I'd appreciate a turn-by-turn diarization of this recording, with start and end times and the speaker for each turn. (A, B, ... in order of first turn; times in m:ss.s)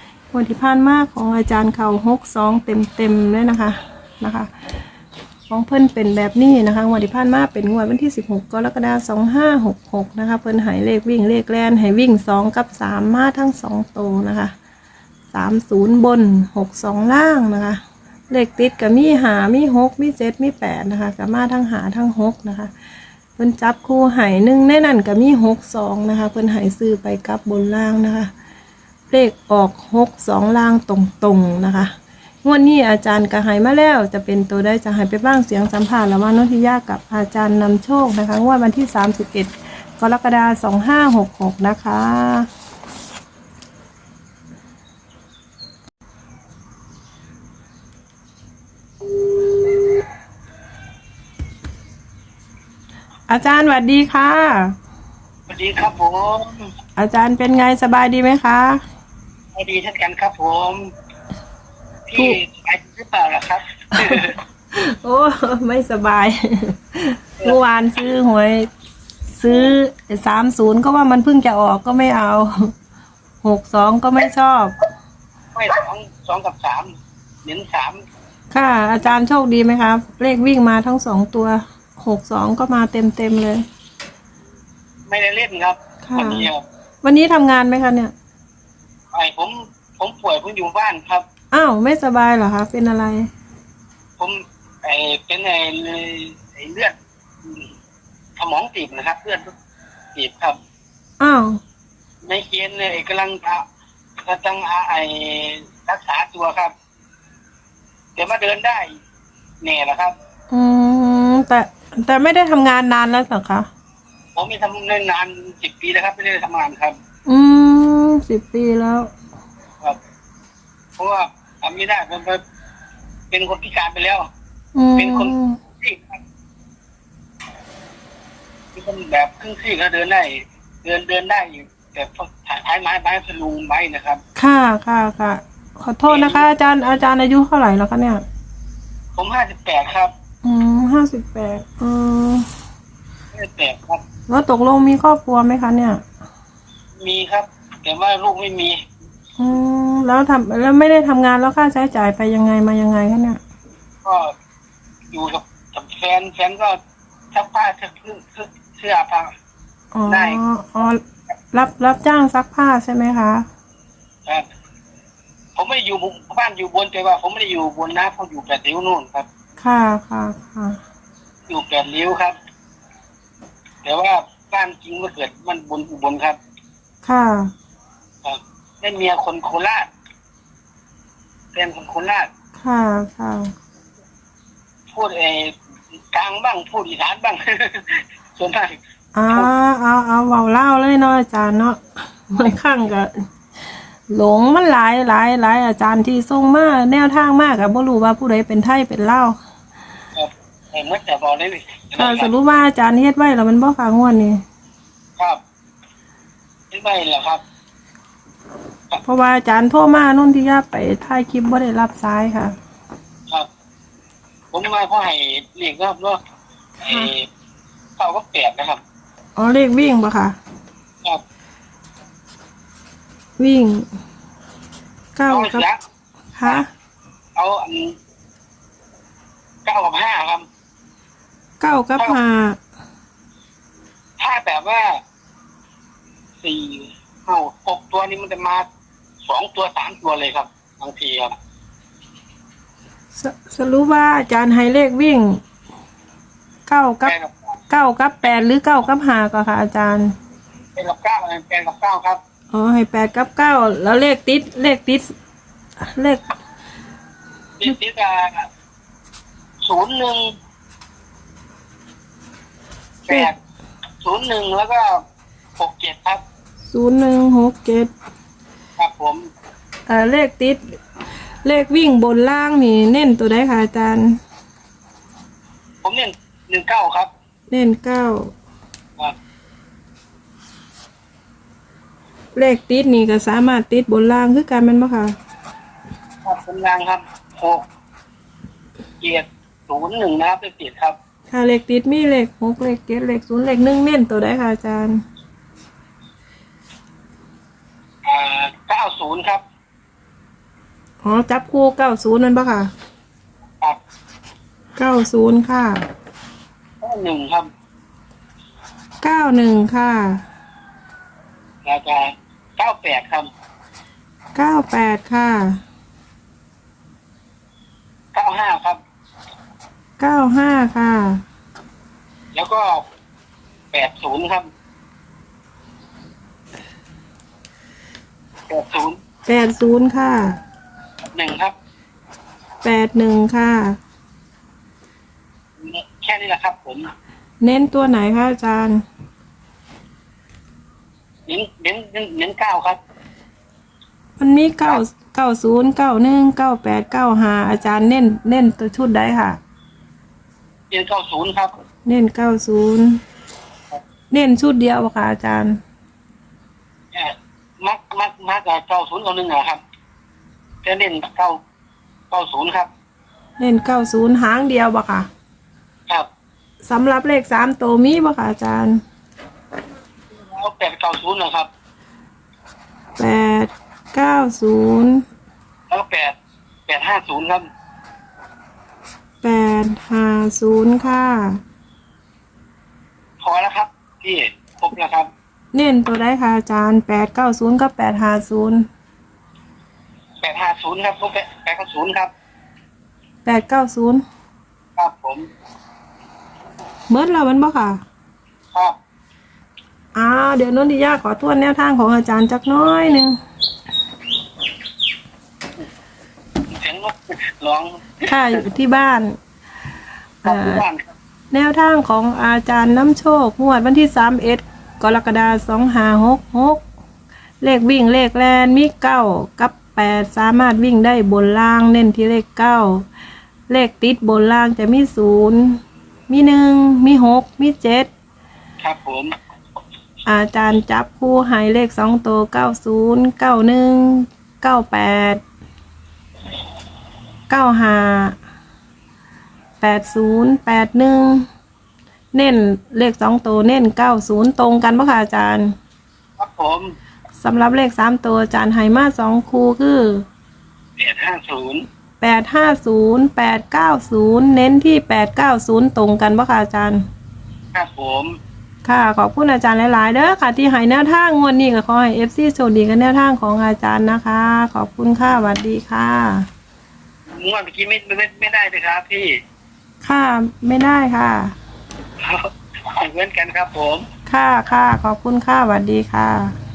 0:00.3-0:04.5 A
0:05.5-0:14.5 A
0:15.3-0:22.7 A
0:23.4-0:28.3 A
0:29.1-0:31.9 A
0:32.4-0:42.5 A
0:53.3-0:54.8 A
0:55.5-0:56.7 B
0:57.0-0:58.8 A
0:59.5-1:00.9 B
1:02.1-1:04.4 B
1:04.0-1:08.7 A
1:09.4-1:12.7 A
1:09.5-1:09.7 B
1:13.4-1:14.8 A
1:15.6-1:16.9 B
1:17.4-1:18.0 B
1:18.5-1:23.6 A
1:25.1-1:26.6 B
1:26.1-1:26.5 A
1:27.0-1:28.1 A
1:29.1-1:31.3 B
1:31.5-1:33.3 A
1:34.2-1:37.7 B
1:38.4-1:39.5 B
1:40.2-1:40.6 B
1:41.2-1:41.6 A
1:42.2-1:43.6 B
1:44.2-1:46.7 B
1:48.2-1:49.0 B
1:49.6-1:50.2 B
1:50.5-1:53.7 A
1:54.4-1:57.0 B
1:57.3-1:59.1 A
2:01.0-2:02.4 B
2:03.3-2:04.3 B
2:04.8-2:05.6 A
2:05.0-2:06.2 B
2:08.8-2:14.2 B
2:14.4-2:18.2 A
2:16.1-2:16.5 B
2:19.2-2:20.1 B
2:20.4-2:22.5 A
2:23.3-2:24.0 B
2:24.3-2:26.0 A
2:27.0-2:28.8 B
2:29.4-2:33.4 A
2:34.0-2:34.3 B
2:35.1-2:36.8 B
2:37.3-2:39.3 B
2:39.9-2:41.0 A
2:40.1-2:40.4 B
2:41.5-2:43.5 A
2:45.6-2:49.3 B
2:49.6-2:50.8 A
2:51.5-2:52.4 B
2:53.8-2:56.4 B
2:57.0-2:57.5 A
2:58.2-2:59.9 B
3:01.5-3:02.3 B
3:02.6-3:03.5 A
3:04.9-3:05.6 B
3:06.1-3:08.8 B
3:09.2-3:13.3 A
3:14.1-3:19.4 A
3:20.2-3:22.3 B
3:22.0-3:24.4 A
3:26.7-3:27.4 B
3:29.0-3:32.6 A
3:34.5-3:36.2 B
3:36.8-3:37.3 B
3:36.8-3:37.1 A
3:38.0-3:38.8 B
3:39.4-3:40.4 A
3:43.4-3:43.9 A
3:45.2-3:45.6 A
3:45.3-3:45.8 B
3:46.4-3:46.7 A
3:47.4-3:48.0 B
3:49.6-3:50.4 B
3:51.6-3:52.6 A
3:54.2-3:55.0 B
3:56.4-3:58.7 B
3:59.3-4:01.4 B
4:03.2-4:05.4 A
4:06.7-4:07.1 A
4:07.0-4:07.4 B
4:07.7-4:10.1 A
4:10.8-4:12.2 B
4:12.5-4:15.1 A
4:15.8-4:16.2 A
4:17.6-4:18.5 B
4:19.6-4:20.3 B
4:23.0-4:23.4 B
4:24.0-4:25.0 B
4:25.6-4:26.2 B
4:26.7-4:27.9 A
4:28.8-4:29.3 B
4:29.9-4:30.6 A
4:31.4-4:34.2 A
4:35.8-4:37.1 B
4:37.5-4:38.3 A
4:42.4-4:45.2 A
4:46.2-4:47.7 B
4:49.0-4:51.0 B
4:51.3-4:55.0 A
4:58.0-4:59.4 B
5:01.0-5:02.7 A
5:04.8-5:05.9 A
5:06.8-5:07.5 B
5:09.0-5:10.2 A
5:11.6-5:13.3 B
5:14.4-5:15.6 A
5:18.1-5:18.8 B
5:20.0-5:21.2 A
5:22.3-5:22.9 B
5:23.7-5:24.5 B
5:28.5-5:29.0 B
5:29.3-5:30.4 A
5:31.1-5:31.6 B
5:32.6-5:33.8 A
5:35.6-5:36.9 B
5:37.4-5:38.8 A
5:41.3-5:42.8 B
5:44.2-5:49.4 A
5:50.7-5:51.6 B
5:51.9-5:53.0 A
5:54.1-5:55.6 A
5:56.9-5:59.6 B
6:00.6-6:01.4 B
6:02.1-6:02.7 B
6:03.4-6:05.1 A
6:06.6-6:08.8 A
6:10.3-6:11.5 B
6:13.0-6:15.0 A
6:15.7-6:16.2 B
6:16.7-6:17.5 B
6:19.2-6:21.4 A
6:23.2-6:25.1 B
6:25.5-6:28.7 A
6:30.2-6:32.1 B
6:33.2-6:34.0 A
6:34.8-6:35.3 B
6:36.9-6:37.8 A
6:40.0-6:43.2 A
6:46.5-6:48.4 B
6:48.0-6:49.2 A
6:50.2-6:50.6 A
6:50.2-6:50.9 B
6:51.3-6:56.6 A
6:57.4-7:02.8 A
7:03.5-7:07.9 A
7:08.6-7:09.1 B
7:10.1-7:15.2 A
7:17.3-7:18.2 A
7:19.6-7:21.3 A
7:22.1-7:25.6 A
7:26.2-7:26.8 B
7:27.2-7:30.1 A
7:30.8-7:31.7 B
7:32.0-7:36.9 A
7:37.5-7:38.2 B
7:38.6-7:46.3 A
7:47.2-7:49.2 B
7:49.8-7:51.3 A
7:52.0-7:53.9 B
7:54.1-7:56.4 A